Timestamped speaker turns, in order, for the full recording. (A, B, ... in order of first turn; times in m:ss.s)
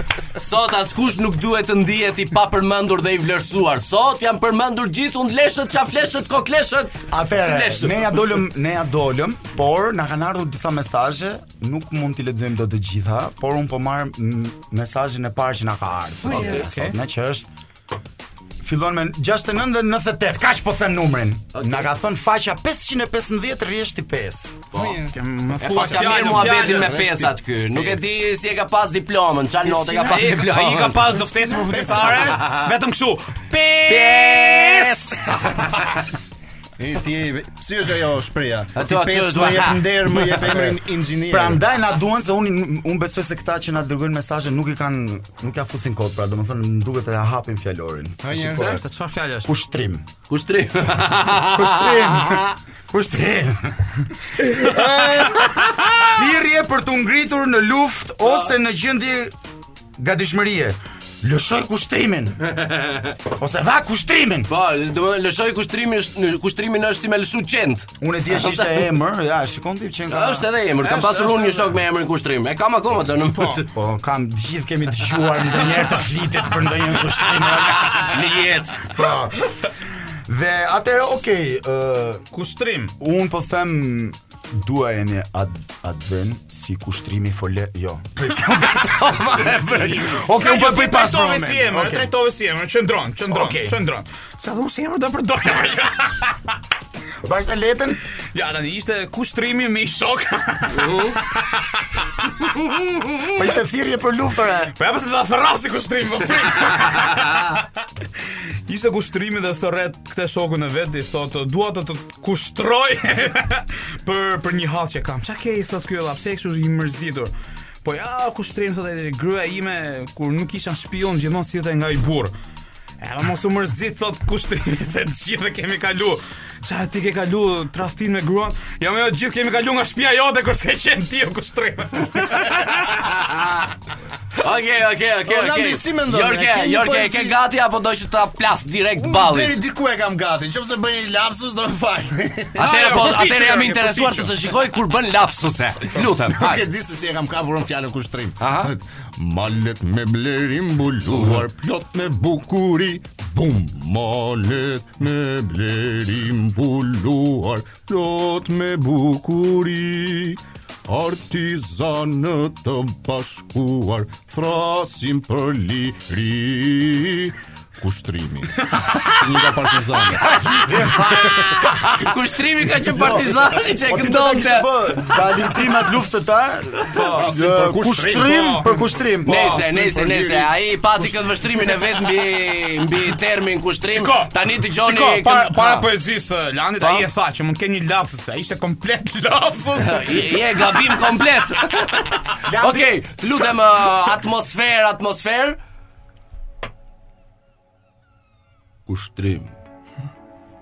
0:00.4-0:08.2 A
0:07.1-0:17.5 B
0:16.2-0:16.6 A
0:16.4-0:16.9 C
0:18.6-0:24.6 B
0:21.5-0:21.9 A
0:24.7-0:31.2 A
0:24.8-0:25.1 D
0:25.1-0:26.9 C
0:25.7-0:28.2 D
0:29.7-0:30.1 D
0:30.0-0:35.7 C
0:31.6-0:32.4 D
0:32.0-0:32.7 A
0:33.9-0:36.0 A
0:36.8-0:41.6 D
0:38.7-0:40.4 A
0:40.3-0:48.8 B
0:48.2-0:48.8 D
0:48.6-0:49.5 C
0:49.5-0:50.0 B
0:50.3-0:52.5 A
0:51.5-0:54.0 B
0:54.6-0:55.3 B
0:54.6-0:55.8 A
0:56.0-0:59.3 B
1:00.0-1:02.4 B
1:02.5-1:03.2 A
1:03.2-1:04.5 B
1:04.5-1:08.8 A
1:08.0-1:10.5 B
1:10.1-1:13.7 A
1:10.8-1:11.7 C
1:13.7-1:18.2 B
1:17.8-1:18.9 A
1:18.8-1:22.2 B
1:22.3-1:22.9 C
1:23.0-1:32.1 B
1:30.0-1:36.3 C
1:33.3-1:33.8 B
1:37.2-1:38.0 B
1:38.3-1:42.5 C
1:40.7-1:41.2 A
1:43.3-1:44.7 B
1:44.8-1:47.7 C
1:48.7-1:57.3 C
1:57.8-2:02.3 C
2:03.0-2:13.1 C
2:12.9-2:13.6 A
2:14.4-2:19.6 A
2:15.2-2:17.4 D
2:19.0-2:23.2 D
2:22.5-2:24.3 C
2:22.6-2:26.6 A
2:26.2-2:50.9 D
2:28.4-2:28.7 A
2:31.2-2:31.4 A
2:50.2-2:52.0 B
2:51.2-2:55.3 A
2:52.8-2:59.6 B
2:56.9-2:57.3 C
2:57.0-2:58.4 D
2:58.1-2:58.9 C
2:59.2-3:05.9 A
2:59.3-3:00.5 D
3:03.8-3:10.8 C
3:06.8-3:07.0 A
3:09.8-3:15.6 A
3:12.4-3:12.9 B
3:18.9-3:19.5 A